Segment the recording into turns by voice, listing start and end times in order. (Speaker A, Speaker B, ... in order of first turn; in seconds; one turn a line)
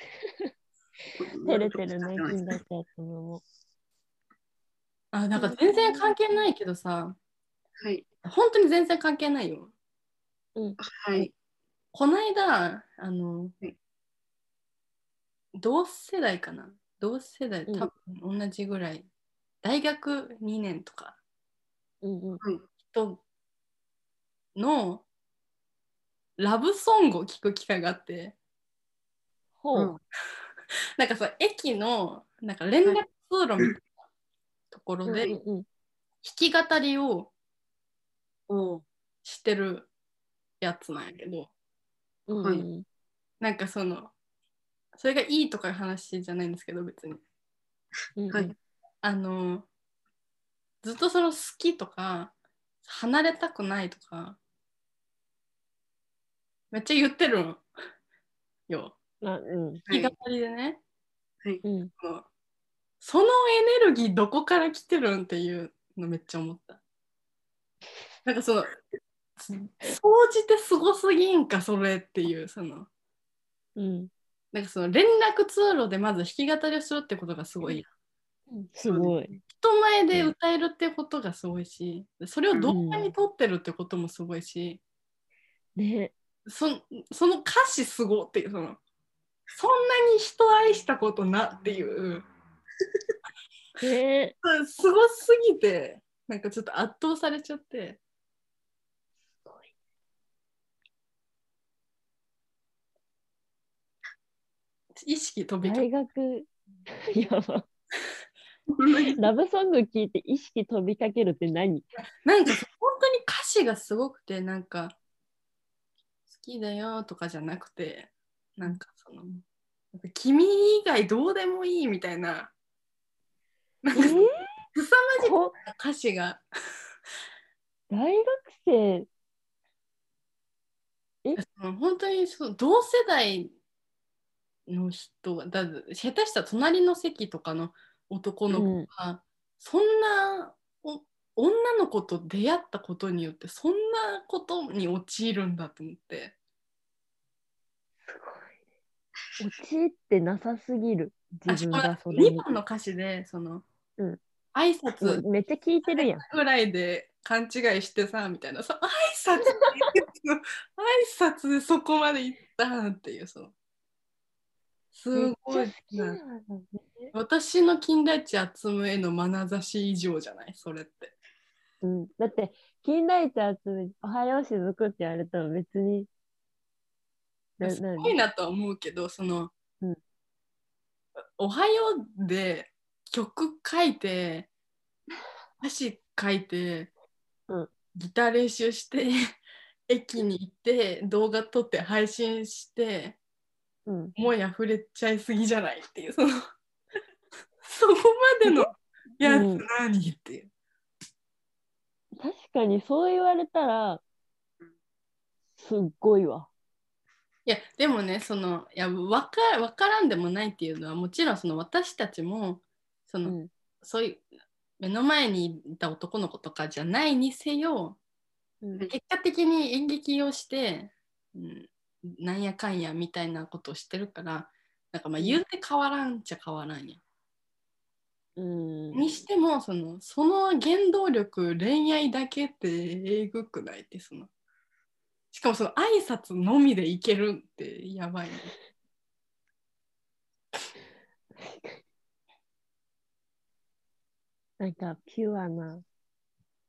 Speaker A: 1.2-2.4
Speaker B: 1.4-3.4
Speaker C: 5.1-7.2
Speaker B: 5.4-6.4
Speaker A: 7.8-8.1
Speaker C: 8.2-9.7
Speaker A: 10.8-11.3
Speaker C: 11.9-13.6
Speaker C: 15.6-19.1
Speaker C: 19.6-21.2
Speaker B: 22.0-22.4
Speaker C: 22.9-23.2
Speaker C: 24.6-25.1
Speaker C: 26.4-28.4
Speaker B: 29.6-30.0
Speaker C: 31.0-33.8
Speaker C: 34.7-35.3
Speaker B: 35.1-35.7
Speaker C: 36.2-37.3
Speaker A: 38.5-38.8
Speaker C: 39.2-39.9
Speaker C: 40.6-41.5
Speaker B: 42.3-42.9
Speaker C: 43.4-44.1
Speaker C: 45.0-47.2
Speaker B: 48.2-48.5
Speaker C: 49.0-49.7
Speaker C: 50.8-52.3
Speaker C: 52.9-54.4
Speaker C: 56.7-57.6
Speaker C: 58.7-59.0
Speaker B: 59.2-59.8
Speaker A: 59.9-60.1
Speaker C: 59.9-60.8
Speaker B: 61.6-61.9
Speaker C: 62.0-62.3
Speaker C: 63.0-66.8
Speaker C: 68.2-68.8
Speaker C: 69.4-72.9
Speaker B: 73.8-74.1
Speaker C: 74.5-77.8
Speaker B: 78.5-79.4
Speaker A: 78.9-79.2
Speaker C: 79.5-84.8
Speaker B: 82.7-83.1
Speaker B: 85.8-86.1
Speaker C: 86.5-88.8
Speaker C: 89.6-92.3
Speaker B: 93.8-94.3
Speaker C: 94.4-98.0
Speaker C: 105.0-105.9
Speaker B: 105.6-107.7
Speaker A: 108.7-109.2
Speaker B: 109.2-111.9
Speaker C: 112.2-115.0
Speaker C: 116.3-122.5
Speaker C: 123.8-126.4
Speaker B: 124.0-124.5
Speaker B: 125.2-125.5
Speaker B: 127.9-129.1
Speaker C: 131.4-133.5
Speaker C: 134.7-146.3
Speaker B: 138.5-138.9
Speaker B: 148.1-148.5
Speaker B: 149.4-152.5
Speaker C: 151.5-153.7
Speaker C: 154.6-155.2
Speaker B: 155.0-156.2
Speaker C: 155.9-163.5
Speaker C: 164.9-166.2
Speaker B: 165.1-167.1
Speaker C: 167.1-171.1
Speaker B: 171.8-176.1
Speaker B: 177.6-178.2
Speaker C: 177.6-179.5
Speaker C: 181.4-184.5
Speaker C: 185.6-186.9
Speaker C: 188.0-189.3
Speaker C: 189.9-193.2
Speaker B: 193.9-194.1
Speaker C: 194.2-196.4
Speaker C: 197.6-200.5
Speaker B: 198.4-198.7
Speaker B: 199.2-199.7
Speaker B: 202.2-204.0
Speaker B: 205.6-206.5
Speaker C: 207.5-214.2
Speaker C: 214.8-218.0
Speaker B: 218.6-218.9
Speaker C: 218.9-227.0
Speaker B: 228.4-229.1
Speaker C: 228.9-234.3
Speaker C: 235.3-238.5
Speaker B: 241.4-241.8
Speaker B: 244.6-245.8